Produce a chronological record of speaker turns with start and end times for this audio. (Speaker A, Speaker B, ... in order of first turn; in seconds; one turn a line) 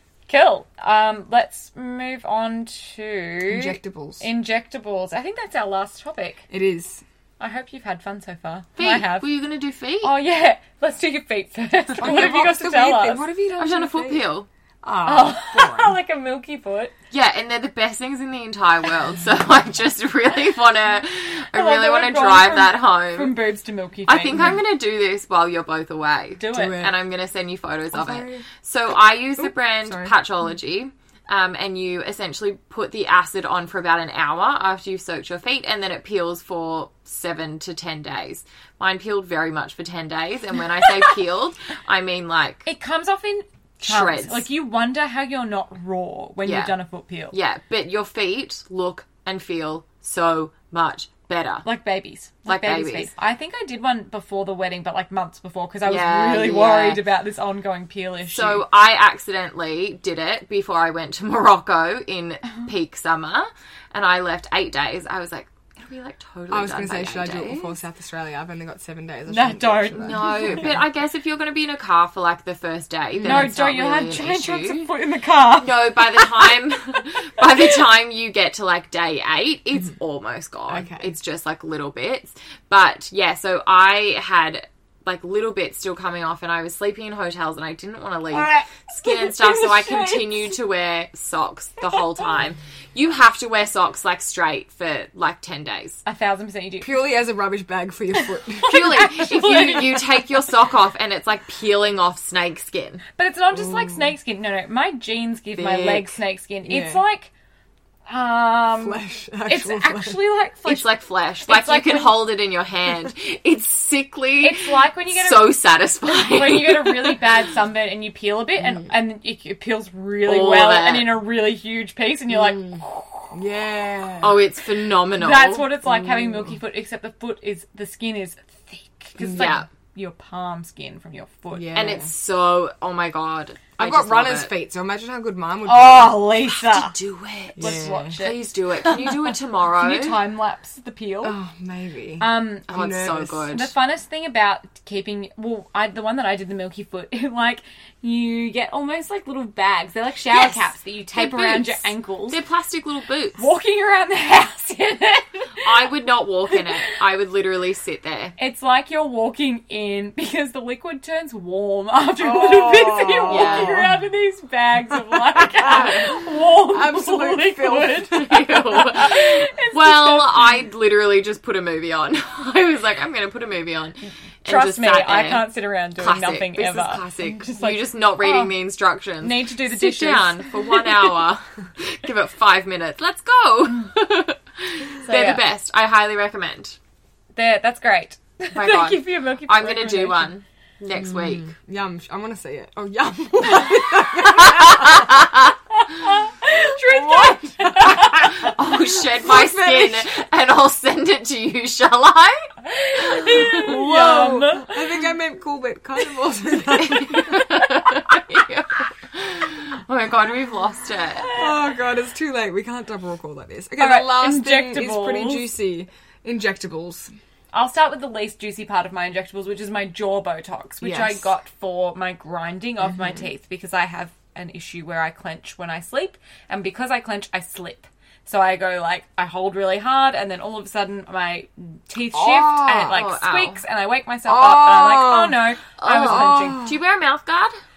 Speaker A: 0.3-6.5
Speaker B: 3.5-4.2
Speaker B: 6.5-7.0
Speaker A: 7.4-9.3
Speaker C: 8.8-10.1
Speaker A: 10.0-13.2
Speaker B: 12.0-14.3
Speaker C: 13.6-14.5
Speaker B: 14.8-15.9
Speaker A: 15.0-16.9
Speaker C: 17.1-23.4
Speaker A: 21.5-24.6
Speaker C: 24.1-42.7
Speaker A: 26.4-26.8
Speaker B: 26.5-26.9
Speaker B: 27.9-28.4
Speaker B: 29.4-30.1
Speaker A: 42.6-47.4
Speaker C: 43.8-44.4
Speaker C: 46.4-46.7
Speaker C: 47.3-51.6
Speaker A: 51.6-58.6
Speaker C: 52.5-53.1
Speaker C: 55.9-57.0
Speaker C: 58.3-67.8
Speaker B: 66.5-70.8
Speaker A: 69.3-70.8
Speaker C: 70.0-74.9
Speaker B: 73.1-73.5
Speaker A: 73.2-77.0
Speaker C: 75.6-96.0
Speaker B: 80.7-81.1
Speaker A: 88.3-90.2
Speaker A: 96.0-96.9
Speaker B: 96.8-99.7
Speaker A: 98.5-100.2
Speaker C: 98.7-103.0
Speaker A: 103.2-107.3
Speaker B: 103.5-104.1
Speaker C: 105.5-106.2
Speaker B: 106.7-107.0
Speaker A: 108.1-110.9
Speaker B: 108.7-110.2
Speaker C: 110.6-117.3
Speaker A: 111.4-112.3
Speaker A: 114.4-123.4
Speaker C: 120.2-121.2
Speaker B: 123.3-124.4
Speaker C: 124.2-125.7
Speaker A: 125.2-131.8
Speaker B: 125.8-126.5
Speaker C: 129.2-129.7
Speaker B: 129.2-129.5
Speaker B: 131.5-132.1
Speaker C: 131.7-134.5
Speaker B: 133.8-136.2
Speaker A: 135.7-136.9
Speaker C: 136.4-140.2
Speaker B: 137.6-138.2
Speaker A: 137.6-141.4
Speaker B: 141.2-143.5
Speaker A: 142.2-142.7
Speaker C: 142.7-143.7
Speaker A: 143.5-152.4
Speaker C: 150.3-153.4
Speaker A: 153.4-155.9
Speaker C: 155.6-158.3
Speaker A: 156.5-156.9
Speaker A: 158.4-170.6
Speaker B: 162.2-164.0
Speaker C: 163.3-163.8
Speaker B: 164.9-168.8
Speaker C: 168.1-186.8
Speaker A: 174.5-178.5
Speaker A: 179.2-181.1
Speaker A: 185.0-185.4
Speaker A: 187.3-190.3
Speaker C: 188.5-191.5
Speaker B: 191.0-195.3
Speaker C: 194.3-195.5
Speaker A: 195.7-198.5
Speaker B: 196.8-200.1
Speaker C: 198.1-202.6
Speaker A: 202.6-204.9
Speaker C: 203.2-203.7
Speaker B: 203.3-207.6
Speaker C: 206.7-211.3
Speaker B: 211.3-217.1
Speaker A: 213.8-215.4
Speaker A: 217.5-236.7
Speaker B: 220.8-221.3
Speaker B: 232.1-233.0
Speaker C: 232.9-233.6
Speaker B: 234.2-235.4
Speaker C: 235.8-237.5
Speaker B: 236.0-236.8